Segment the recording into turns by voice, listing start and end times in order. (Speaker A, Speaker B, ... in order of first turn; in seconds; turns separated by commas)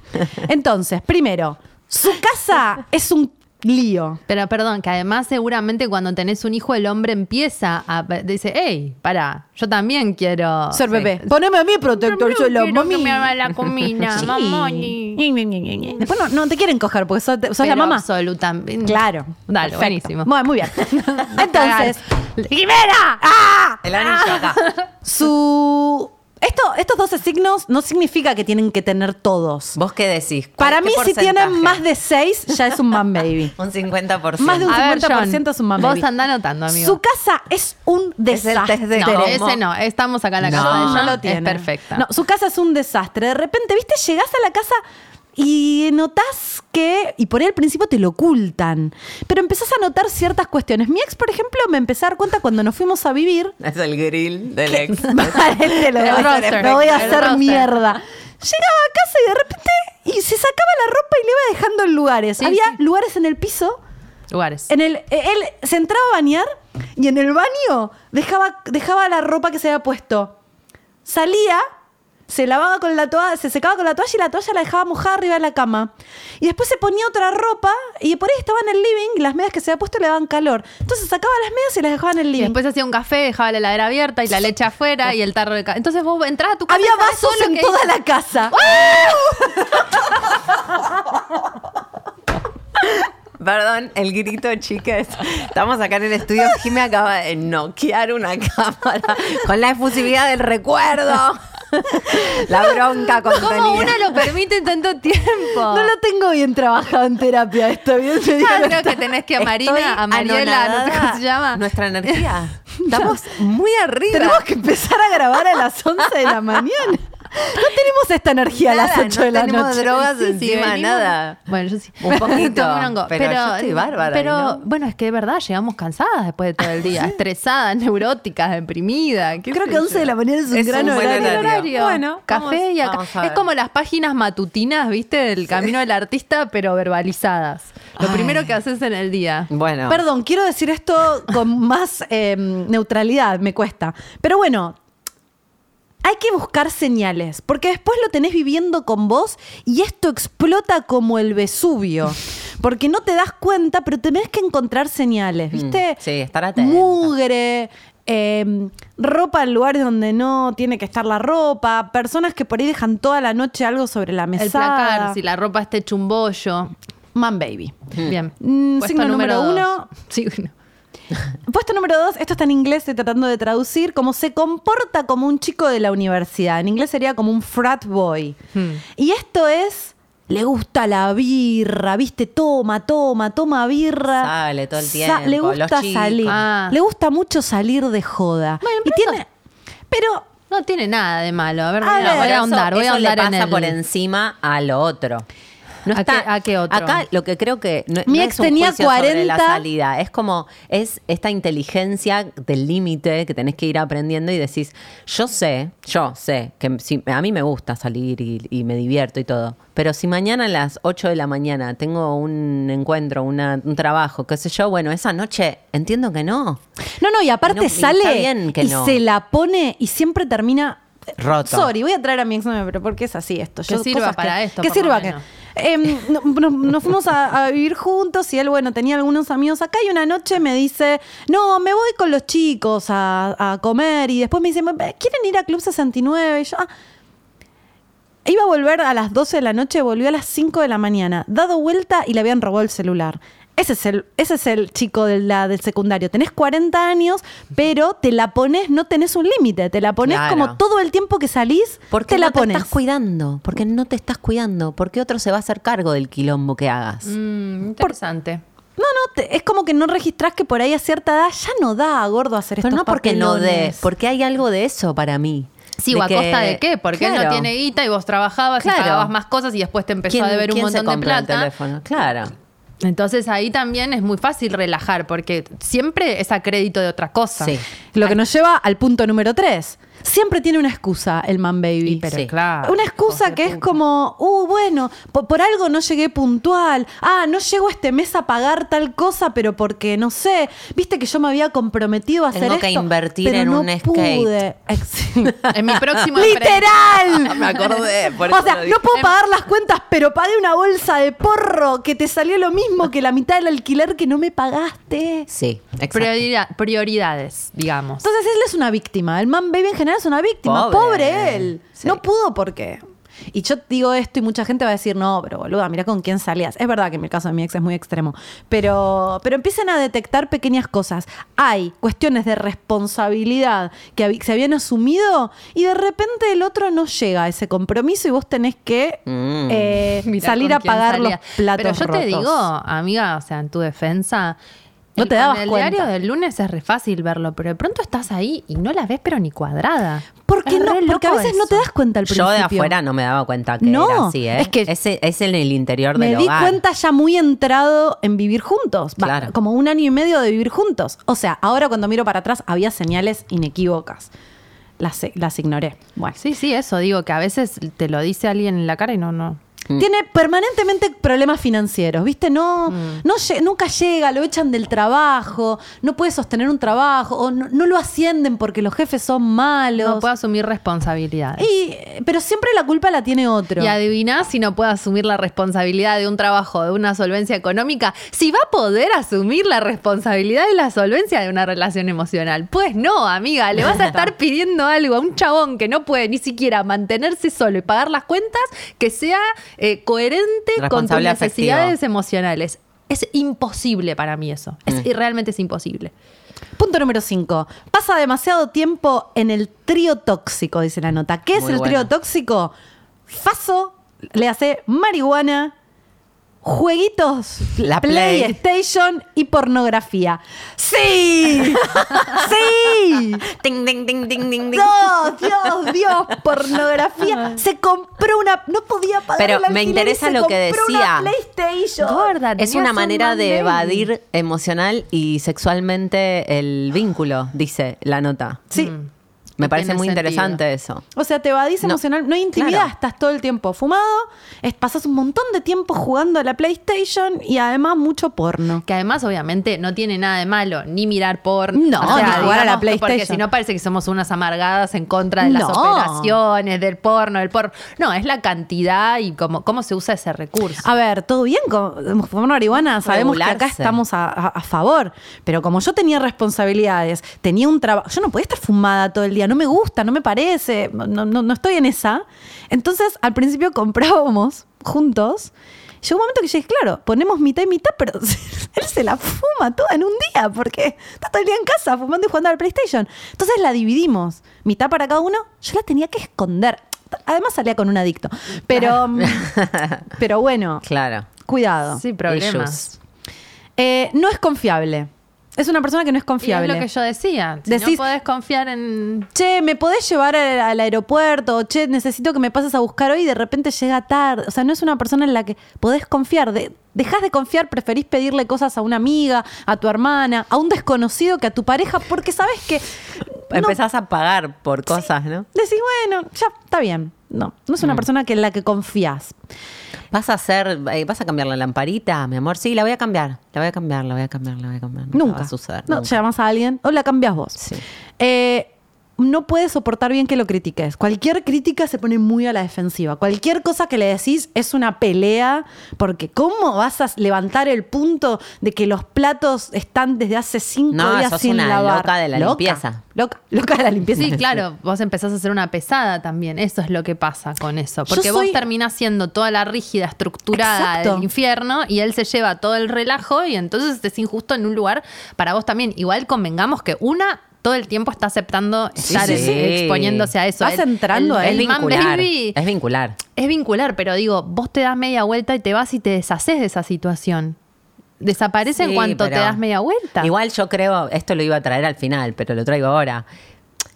Speaker A: 0.3-4.2, Speaker B: 4.3-11.3, Speaker A: 10.7-13.3, Speaker B: 11.9-15.2, Speaker A: 14.1-18.0, Speaker B: 17.6-20.3, Speaker A: 18.8-22.0, Speaker B: 21.4-23.2, Speaker A: 23.2-29.8, Speaker C: 23.8-24.6, Speaker C: 29.7-31.8, Speaker A: 30.6-33.5, Speaker C: 33.6-34.8, Speaker A: 34.4-36.0, Speaker B: 34.7-37.0, Speaker A: 36.7-39.4, Speaker C: 38.3-39.6, Speaker B: 38.9-42.0, Speaker C: 40.4-41.2, Speaker A: 40.5-44.8, Speaker A: 45.4-53.5, Speaker C: 53.6-57.5, Speaker A: 54.7-63.8, Speaker B: 56.0-57.7, Speaker B: 62.4-62.8, Speaker B: 64.3-64.7, Speaker A: 64.7-70.3, Speaker A: 71.0-71.6, Speaker A: 72.3-82.5, Speaker B: 82.3-87.9, Speaker A: 86.7-90.4, Speaker C: 92.8-104.3, Speaker B: 103.3-105.9, Speaker A: 105.7-109.0, Speaker B: 108.3-112.3, Speaker C: 109.4-114.5, Speaker A: 112.8-113.3, Speaker A: 114.1-120.1, Speaker C: 118.6-121.4, Speaker B: 120.1-130.1, Speaker C: 122.0-124.6, Speaker A: 129.5-132.6, Speaker C: 130.5-131.7, Speaker B: 130.7-139.5, Speaker C: 132.8-133.4, Speaker A: 138.0-138.3, Speaker C: 139.5-140.0, Speaker A: 139.9-144.8, Speaker A: 146.0-156.0, Speaker C: 155.5-157.1, Speaker A: 156.6-165.2, Speaker B: 164.3-166.7, Speaker A: 167.1-167.8, Speaker B: 168.0-170.5, Speaker A: 168.4-169.9, Speaker A: 171.4-178.4, Speaker B: 178.5-178.8, Speaker A: 178.9-189.3, Speaker C: 184.2-186.4, Speaker B: 186.2-186.8, Speaker B: 188.6-189.2, Speaker A: 189.9-190.2, Speaker B: 190.5-193.8, Speaker A: 191.8-192.4, Speaker C: 192.0-195.2, Speaker C: 195.8-216.6, Speaker B: 195.9-197.0, Speaker A: 198.1-199.6, Speaker A: 217.0-220.8, Speaker C: 217.4-219.0, Speaker C: 221.2-221.7, Speaker A: 221.4-236.7, Speaker B: 223.7-225.2, Speaker A: 238.2-252.7, Speaker C: 250.0-250.6, Speaker C: 251.9-257.1, Speaker B: 257.0-258.4, Speaker A: 258.8-263.9, Speaker C: 262.6-267.5, Speaker B: 265.8-271.5, Speaker C: 268.6-269.1, Speaker C: 270.1-272.3, Speaker B: 272.8-278.1, Speaker A: 277.9-282.1, Speaker B: 281.8-283.7, Speaker A: 282.6-295.4, Speaker C: 292.3-294.3, Speaker B: 295.5-296.7, Speaker A: 296.1-305.3, Speaker C: 297.1-299.1, Speaker C: 305.3-306.2, Speaker B: 305.9-308.1, Speaker A: 308.0-312.8, Speaker C: 310.4-312.0, Speaker A: 313.3-332.5, Speaker C: 329.1-329.9, Speaker B: 330.0-334.4, Speaker B: 334.9-341.6, Speaker A: 335.0-335.9, Speaker A: 340.2-342.7, Speaker C: 342.1-346.6, Speaker A: 343.6-344.7, Speaker A: 345.9-354.1, Speaker C: 349.0-349.3, Speaker A: 354.8-356.2, Speaker B: 356.2-359.4, Speaker A: 359.8-370.0, Speaker B: 362.7-363.0, Speaker B: 369.8-371.5, Speaker A: 371.4-373.7, Speaker B: 373.6-395.9, Speaker C: 390.6-391.7, Speaker A: 396.6-402.5, Speaker C: 401.3-401.9, Speaker A: 403.1-405.5, Speaker A: 406.4-413.3, Speaker C: 407.6-408.4, Speaker C: 411.6-412.1, Speaker C: 413.3-415.5, Speaker A: 414.5-422.1, Speaker C: 419.2-421.1, Speaker B: 421.8-423.9, Speaker C: 422.4-428.5, Speaker B: 428.5-428.9, Speaker C: 429.4-430.8, Speaker B: 429.4-430.4, Speaker A: 430.9-438.6, Speaker C: 432.3-432.7, Speaker B: 438.6-450.6, Speaker A: 441.5-443.2, Speaker C: 441.8-442.4, Speaker A: 445.2-446.1, Speaker A: 450.6-479.3, Speaker C: 452.7-453.8, Speaker C: 478.9-479.8, Speaker A: 479.9-480.6, Speaker C: 480.6-481.1, Speaker A: 481.2-481.8, Speaker B: 481.7-482.7, Speaker C: 482.1-482.7, Speaker A: 483.6-486.6, Speaker B: 486.2-489.1, Speaker A: 487.5-487.8, Speaker A: 489.1-503.6, Speaker C: 503.3-505.3, Speaker A: 505.3-509.1, Speaker C: 509.9-516.0, Speaker A: 514.9-517.4, Speaker C: 517.4-517.6, Speaker A: 518.0-534.2, Speaker C: 530.7-532.8, Speaker B: 533.9-552.4, Speaker A: 537.9-538.4, Speaker A: 540.3-541.1, Speaker A: 548.8-549.4, Speaker C: 548.9-550.1, Speaker A: 550.4-551.5, Speaker C: 551.2-553.0, Speaker B: 553.1-557.4, Speaker B: 558.0-560.1, Speaker C: 558.5-559.4, Speaker C: 560.0-563.0